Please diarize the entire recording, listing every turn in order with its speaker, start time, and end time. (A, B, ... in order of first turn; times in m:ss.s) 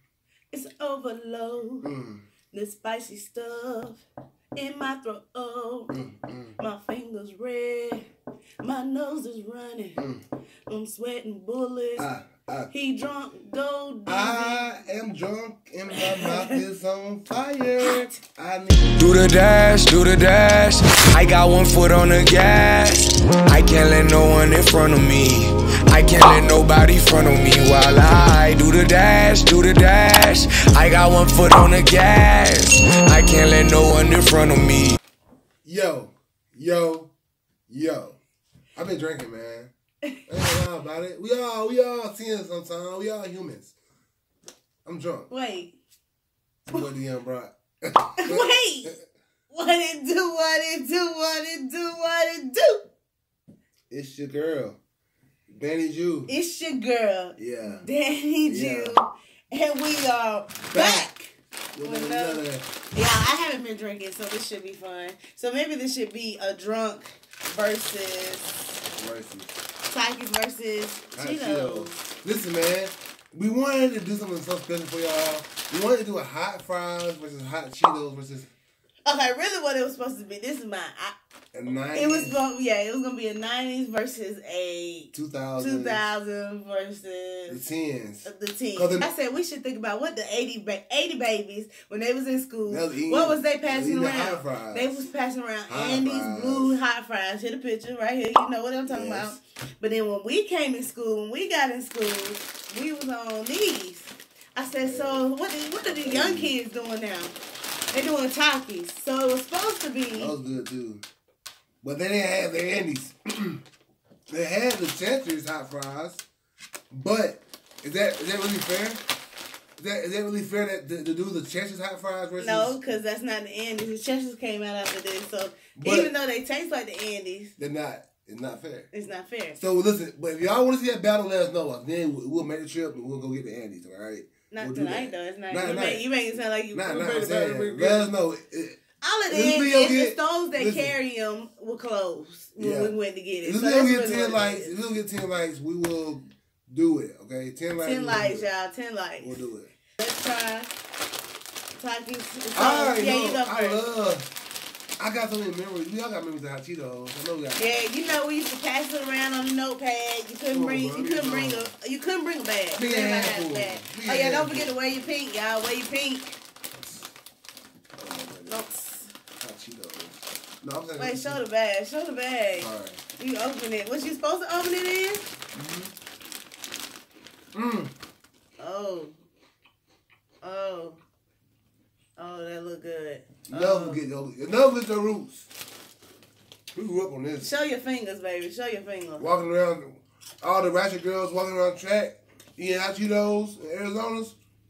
0:00.5-0:01.9 A
0:01.8-0:02.2 B
0:02.5-0:04.0 A
0:04.6-0:05.9 A
0:05.9-0:06.6 B
0:06.6-0:08.1 A
0:08.6-0:10.0 A
0:10.0-0:10.2 B
0:10.7-0:12.1 A
0:12.0-0:12.7 B
0:12.7-0:14.8 A
0:14.1-0:19.3 B
0:16.0-0:16.6 A
0:17.8-0:18.2 A
0:19.0-0:35.0 C
0:35.6-0:37.1 B
0:37.7-0:38.2 B
0:38.8-0:39.7 B
0:40.3-0:43.7 B
0:44.8-0:45.3 B
0:45.3-0:45.8 A
0:46.7-0:49.0 B
0:48.2-0:49.0 A
0:49.5-0:52.9 A
0:53.9-0:54.8 B
0:55.5-0:56.3 B
0:56.3-1:02.4 A
0:57.4-0:57.9 B
0:58.4-0:59.0 B
1:00.7-1:01.1 B
1:01.7-1:02.6 B
1:02.9-1:08.7 A
1:09.0-1:09.5 B
1:09.9-1:12.0 A
1:11.2-1:18.5 B
1:19.0-1:21.2 A
1:21.5-1:22.4 B
1:21.9-1:27.6 A
1:25.1-1:26.0 B
1:27.5-1:29.1 B
1:28.2-1:47.4 A
1:32.7-1:35.1 B
1:35.7-1:36.8 B
1:38.9-1:39.4 B
1:44.8-1:45.3 B
1:45.8-1:46.6 B
1:47.9-1:50.3 A
1:50.1-1:51.0 B
1:51.8-1:53.6 B
1:54.3-1:56.2 B
1:56.9-1:59.0 B
1:59.8-2:02.8 B
2:02.4-2:07.5 A
2:05.8-2:06.1 B
2:07.6-2:08.9 B
2:08.9-2:09.6 A
2:09.6-2:16.1 B
2:14.5-2:18.1 A
2:16.7-2:21.0 B
2:19.0-2:24.7 A
2:22.6-2:28.5 B
2:27.8-2:29.4 A
2:29.2-2:29.7 B
2:30.0-2:30.8 A
2:31.8-2:33.8 A
2:32.6-2:34.3 B
2:35.0-2:37.8 B
2:37.6-2:46.4 A
2:40.5-2:41.7 B
2:42.8-2:44.8 B
2:46.8-2:47.1 B
2:48.0-2:48.6 B
2:48.5-2:49.1 A
2:49.4-2:51.4 B
2:51.0-2:55.3 A
2:52.6-2:53.0 B
2:55.5-2:55.9 B
2:57.5-2:57.9 B
2:58.6-2:59.2 A
3:00.4-3:01.0 A
3:02.2-3:04.0 A
3:03.5-3:05.5 B
3:06.8-3:07.5 B
3:07.4-3:09.3 A
3:09.2-3:14.4 B